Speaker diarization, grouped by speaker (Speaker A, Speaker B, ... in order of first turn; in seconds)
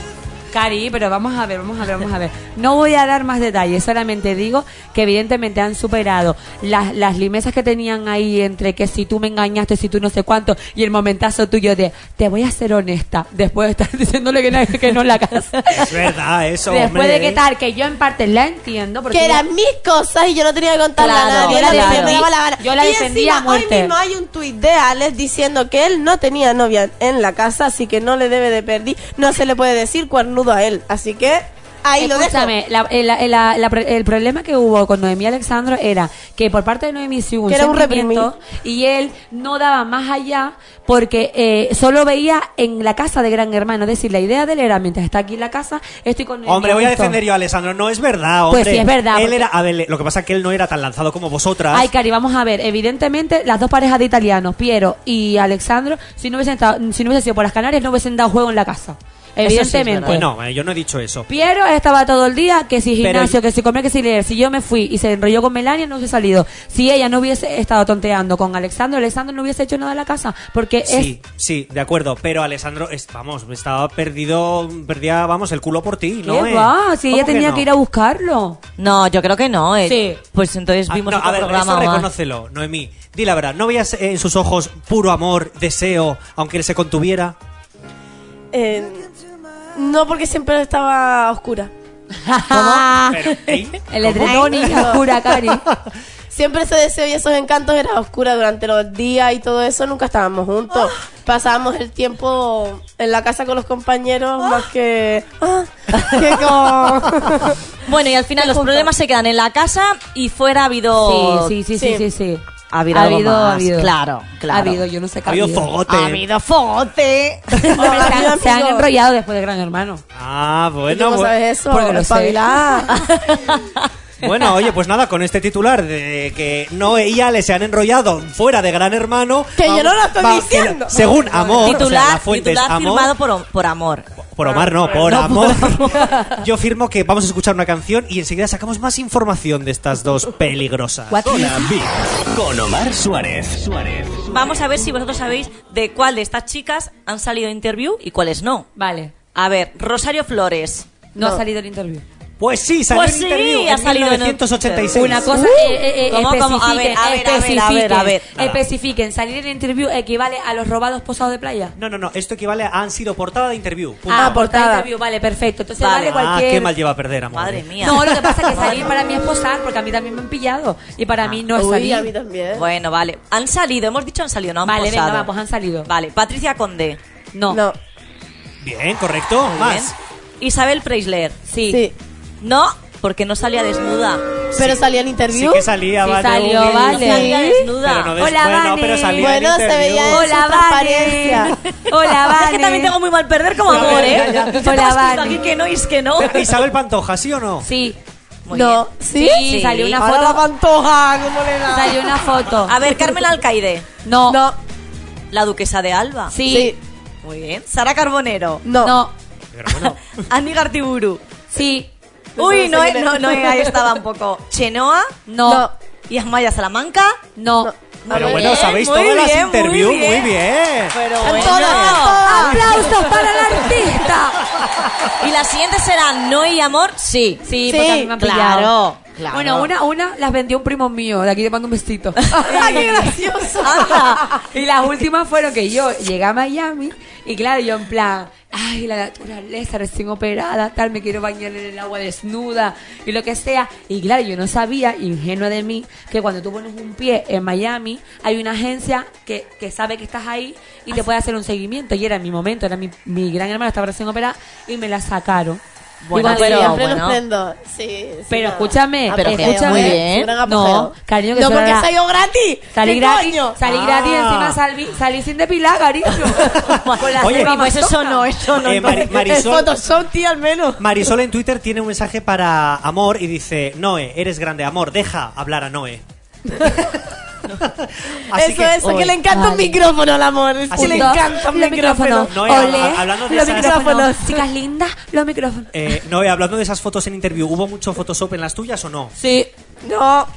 Speaker A: 0.5-15.9, 16.7-19.4, 21.0-23.9, 32.0-47.2, 48.5-49.5, 51.7-60.3, 61.3-71.1, 76.2-78.6, 79.8-80.2, 92.2-93.2, 93.9-95.6, 111.0-113.9, 114.5-115.7, 117.7-120.0, 121.7-122.5, 141.1-141.7, 148.8-149.1, 151.1-152.0, 154.9-161.7, 164.1-166.7, 167.8-172.1, 174.6-175.9, 177.3-177.6, 181.5-181.8, 186.0-187.6, 188.2-189.4, 190.1-192.9, 193.8-195.4, 197.6-198.0, 199.2-200.4, 201.7-202.7, 204.0-204.4, 206.3-206.7, 208.8-209.1, 211.5-211.9, 215.2-215.7, 217.3-217.7, 221.4-224.4, 227.4-228.7, 229.3-233.1, 234.4-256.8, 258.3-261.9, 262.7-268.2, 279.3-279.8, 280.7-285.8, 289.2-289.5
Speaker B: 15.8-17.4, 46.5-51.9, 60.0-61.2, 63.0-63.4, 70.8-77.7, 80.9-87.3, 93.1-95.8, 115.2-116.2, 120.1-121.3, 124.2-133.1, 134.3-141.2, 152.4-155.3, 158.3-158.6, 161.8-164.4, 166.0-168.6, 178.6-179.9, 185.3-190.3, 193.6-194.4, 196.2-197.7, 209.5-210.0, 218.1-221.0, 224.6-224.9, 263.6-264.6, 266.4-267.6, 268.6-269.7, 270.8-276.0, 276.6-277.0, 277.6-278.8, 280.7-283.8, 285.7-289.1
Speaker C: 19.1-32.5, 37.5-38.3, 88.5-89.1, 89.7-91.7, 94.2-95.0, 96.3-107.6, 108.4-108.9, 111.8-112.0, 117.8-118.9, 120.9-122.9, 129.6-131.9, 164.1-164.9, 171.5-172.6, 177.5-177.8, 181.7-181.9, 184.6-185.7, 186.9-187.5, 189.2-191.5, 198.5-199.5, 200.0-202.2, 204.3-204.6, 206.4-206.8, 208.6-208.9, 212.4-213.7, 215.4-215.7, 217.6-218.6, 221.2-224.0, 227.7-228.1, 232.4-234.4, 256.2-263.6, 268.8-271.0, 278.3-284.4, 289.8-290.3
Speaker D: 21.0-22.3, 59.4-60.2, 78.8-82.1, 92.5-92.9, 107.8-111.5, 112.7-114.8, 115.9-118.0, 122.9-123.8, 131.6-134.1, 134.6-136.1, 144.2-148.7, 149.3-150.9, 152.9-158.2, 165.8-166.1, 167.3-168.9, 172.5-175.3, 175.8-177.0, 179.5-181.3, 182.4-184.7, 186.6-188.2, 191.5-196.6, 198.4-200.0, 202.7-203.9, 205.3-206.3, 207.2-208.6, 209.7-211.2, 212.4-215.1, 216.1-217.2, 218.1-220.3, 220.9-223.0, 225.2-227.4, 228.2-229.7, 232.5-232.8, 233.6-234.3, 256.0-257.2, 259.1-260.3, 266.5-269.1, 278.8-279.2
Speaker E: 141.2-144.2